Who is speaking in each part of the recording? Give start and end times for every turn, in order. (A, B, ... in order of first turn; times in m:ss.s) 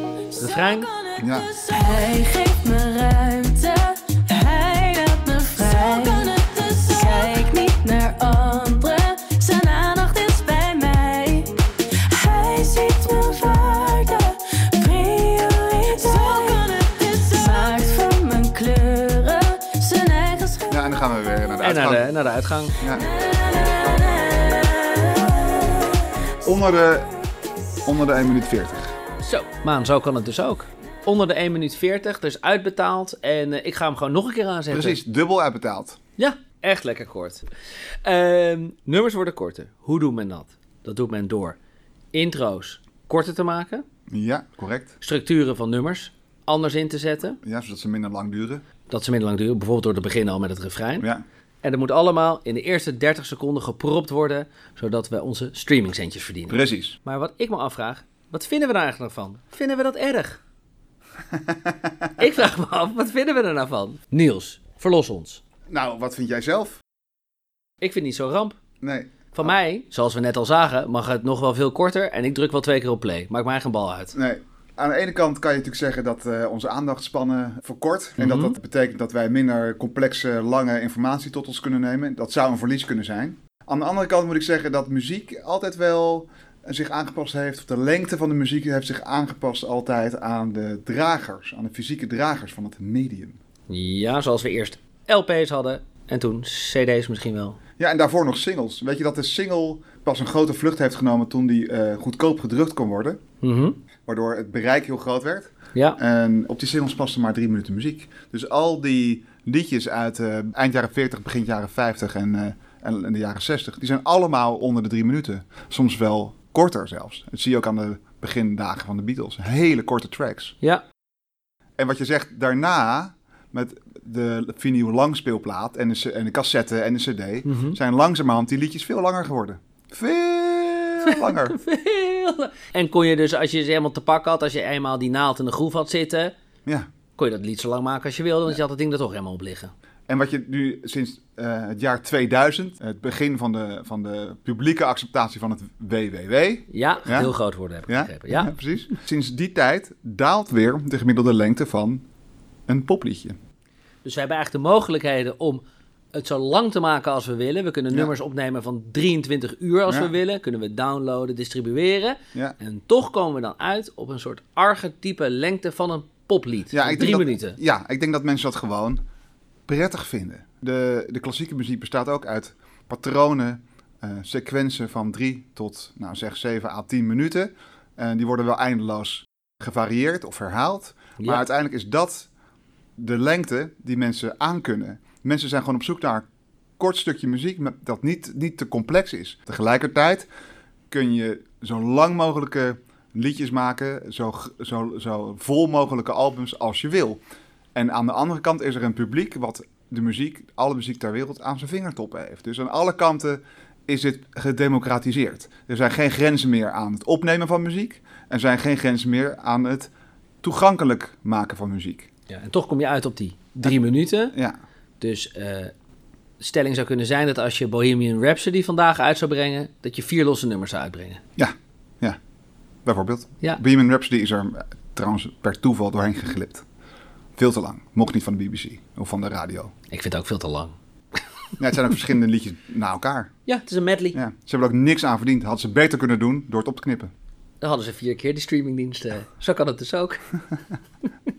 0:00.3-0:20.7 A
0:00.4-0:00.9 B
0:01.2-0:01.5 C
0:20.7-0:22.1 C
0:21.6-0:22.8 B
0:22.8-0:23.1 C
0:23.0-0:25.6 A
0:26.4-0:27.1 C
0:27.8-0:29.0 C
0:29.2-0:35.0 B
0:34.7-0:36.0 C
0:36.2-0:37.4 B
0:38.0-0:41.6 B
0:42.1-0:43.8 B
0:44.1-0:45.0 C
0:45.0-0:47.4 B
0:47.4-0:48.6 C
0:48.9-0:51.1 B
0:51.6-1:00.4 B
0:56.5-0:57.0 C
1:01.3-1:02.1 C
1:02.2-1:05.4 B
1:05.7-1:06.8 C
1:07.8-1:08.6 B
1:08.8-1:09.5 C
1:09.3-1:14.2 B
1:14.1-1:33.4 C
1:18.2-1:18.5 B
1:33.7-1:37.6 B
1:37.8-1:43.2 C
1:43.4-1:43.8 B
1:44.1-2:00.5 C
2:01.8-2:11.6 C
2:07.4-2:07.8 B
2:11.0-2:16.3 B
2:17.2-2:19.7 B
2:20.1-2:27.3 C
2:26.7-2:28.5 B
2:27.9-2:32.0 C
2:32.7-2:33.4 C
2:34.0-2:47.6 B
2:39.9-2:40.1 C
2:46.7-2:49.0 C
2:49.7-3:02.3 C
3:01.2-3:01.4 B
3:03.0-3:06.2 C
3:06.8-3:10.3 C
3:10.9-3:17.2 C
3:17.7-3:29.9 C
3:30.4-3:32.1 C
3:32.3-3:34.3 B
3:35.0-3:35.7 B
3:36.4-3:41.2 B
3:41.4-3:42.2 C
3:42.8-3:46.6 C
3:47.4-3:49.7 C
3:49.9-3:50.7 B
3:51.6-3:53.3 C
3:53.4-3:54.2 B
3:54.1-3:57.1 C
3:57.6-4:00.2 B